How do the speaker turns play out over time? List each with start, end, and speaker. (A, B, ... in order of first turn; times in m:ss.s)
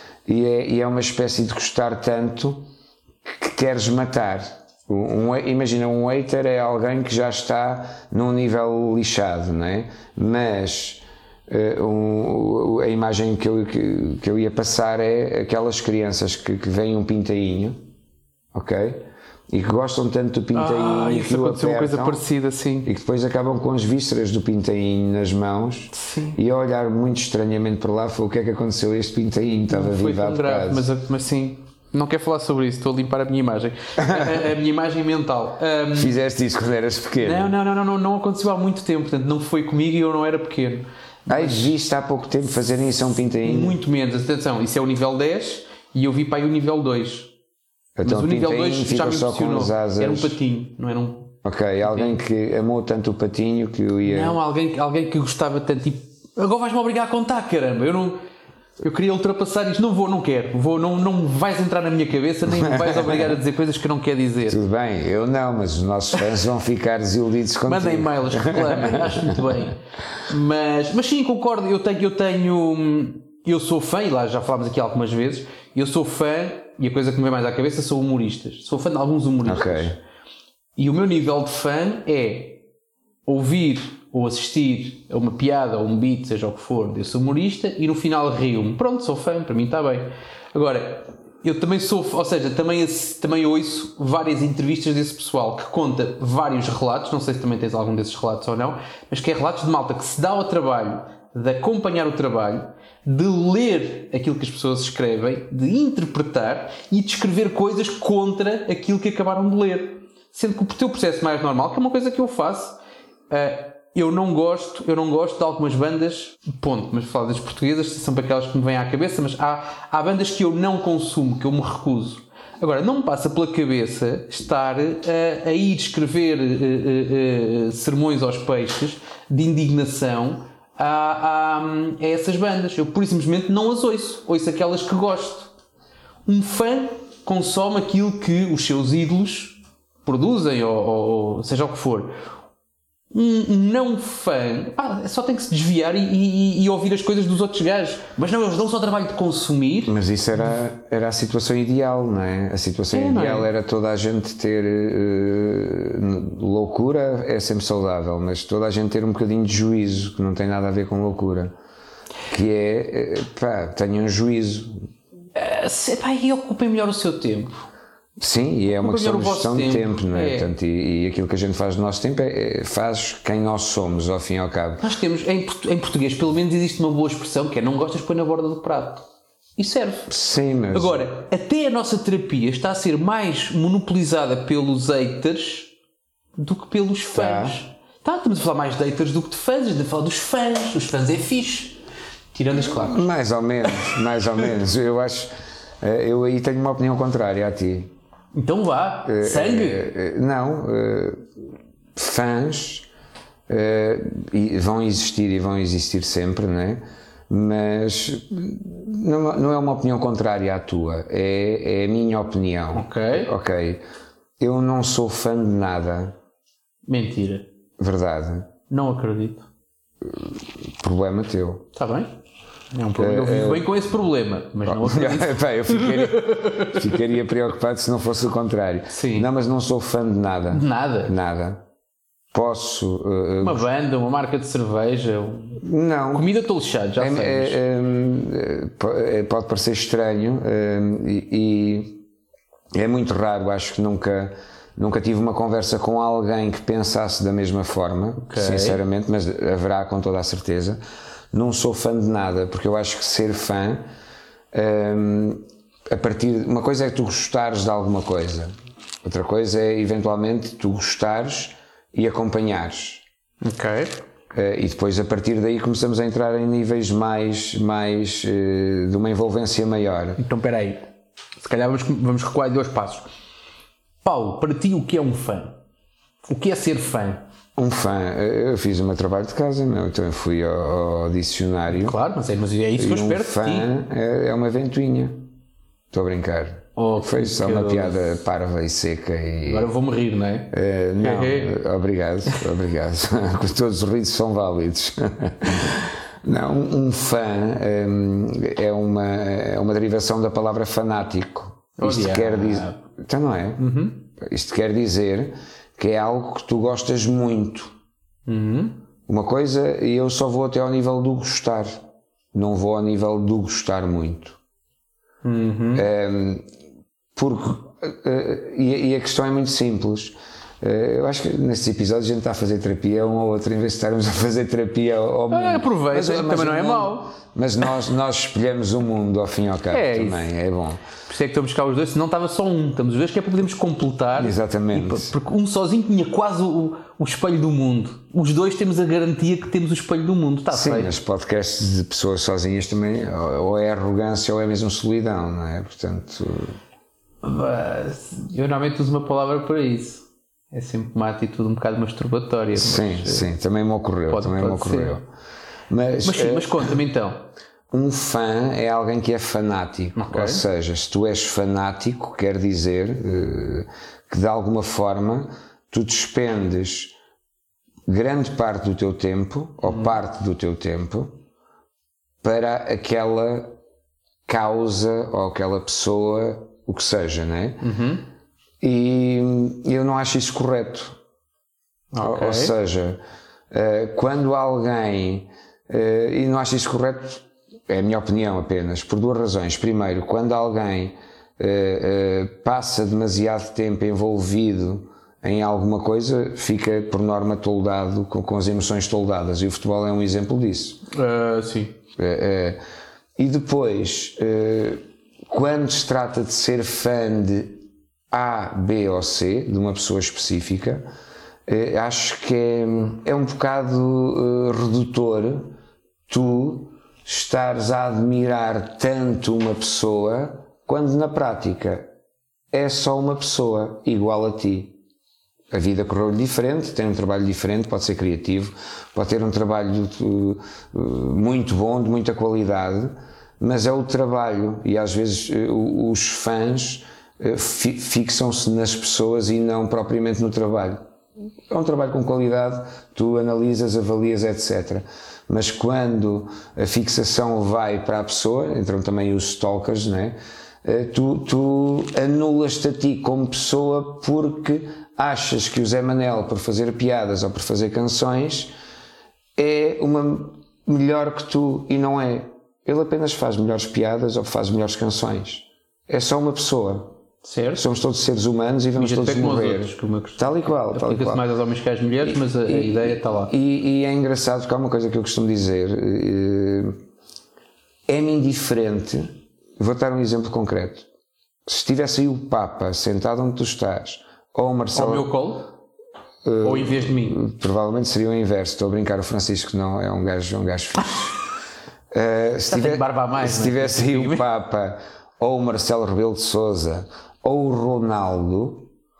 0:00.3-0:02.6 A
0:03.2-0:17.8 A
0:18.5-0:22.2 A
0:20.5-0:22.9 B
0:22.8-0:30.9 A
0:25.9-0:26.4 B
0:29.7-0:36.2 B
0:34.0-0:34.4 A
0:35.9-0:37.5 A
0:37.2-0:41.7 B
0:41.3-0:43.8 A
0:43.4-0:47.3 B
0:48.0-0:50.4 A
0:48.0-0:52.2 B
0:51.4-0:54.4 A
0:54.0-0:58.2 B
0:58.8-1:04.6 B
1:02.5-1:03.4 A
1:04.5-1:09.6 A
1:07.7-1:20.0 B
1:19.4-1:20.0 A
1:20.8-1:22.6 B
1:23.3-1:52.8 B
1:53.3-2:15.5 B
2:16.3-2:22.1 B
2:23.1-2:30.0 B
2:29.9-2:41.5 A
2:32.9-2:33.5 B
2:42.3-2:44.8 A
2:45.4-2:47.6 B
2:48.2-2:54.8 A
2:48.8-2:50.5 B
2:54.8-2:59.0 B
2:59.6-3:00.1 B
3:00.1-3:01.1 A
3:00.7-3:05.7 B
3:06.4-3:11.8 B
3:07.1-3:07.6 A
3:12.3-3:13.1 B
3:12.6-3:17.9 A
3:13.7-3:13.9 B
3:18.3-3:19.9 B
3:19.0-3:21.2 A
3:22.0-3:22.9 A
3:23.5-3:33.8 A
3:32.7-3:33.3 B
3:34.4-3:36.2 A
3:36.9-3:37.5 B
3:37.8-3:38.5 A
3:38.7-3:39.5 B
3:40.0-3:41.7 A
3:41.8-3:42.1 B
3:42.7-3:47.0 B
3:43.0-3:43.7 A
3:44.6-3:51.6 A
3:48.9-3:49.3 B
3:50.5-3:51.1 B
3:52.3-3:53.7 A
3:53.4-3:57.6 B
3:55.6-3:56.3 A
3:57.0-4:02.0 A
4:02.7-4:10.8 A
4:08.2-4:08.8 B
4:11.3-4:13.8 A
4:14.5-4:18.5 A
4:19.0-4:23.0 A
4:23.4-4:24.0 B
4:24.3-4:30.2 A
4:30.2-4:30.8 B
4:31.4-4:33.1 B
4:34.0-4:35.6 B
4:36.3-4:37.2 B
4:37.6-4:42.0 A
4:41.7-4:43.7 B
4:42.8-4:45.2 A
4:45.9-4:49.7 A
4:46.8-4:48.1 B
4:49.5-4:51.6 B
4:50.5-5:03.6 A
5:01.8-5:02.8 B
5:03.6-5:04.0 B
5:04.2-5:07.7 A
5:08.3-5:08.8 B
5:09.1-5:11.8 A
5:12.3-5:14.4 A
5:15.2-5:15.9 B
5:15.8-5:16.5 A
5:17.2-5:30.8 A
5:25.3-5:27.2 B
5:29.7-5:30.3 B
5:31.1-5:40.9 B
5:34.2-5:35.2 A
5:40.5-5:46.6 A
5:47.2-5:53.3 B
5:52.6-5:55.1 A
5:54.1-5:55.0 B
5:55.7-5:56.8 A
5:56.0-5:57.2 B
5:57.7-6:06.9 A
6:00.0-6:00.4 B
6:07.9-6:11.1 A
6:09.7-6:10.0 B
6:12.2-6:13.6 A
6:14.3-6:17.6 A
6:17.6-6:18.0 B
6:18.6-6:21.0 A
6:21.9-6:22.6 B
6:22.0-6:23.0 A
6:23.5-6:40.8 A
6:40.9-6:41.8 B
6:42.0-6:42.6 A
6:43.2-6:47.6 A
6:48.1-6:50.9 A
6:51.5-6:55.5 A
6:56.1-7:01.9 A
7:02.5-7:04.8 A
7:05.5-7:20.8 A
7:21.5-7:38.5 A
7:39.4-7:46.9 A
7:47.2-7:47.6 B
7:47.6-7:51.2 A
7:48.8-7:53.3 B
7:52.0-7:56.8 A
7:57.9-8:00.9 A
8:01.5-8:05.1 A
8:04.7-8:05.5 B
8:06.2-8:11.2 A
8:06.4-8:07.2 B
8:11.9-8:18.7 A
8:12.5-8:14.2 B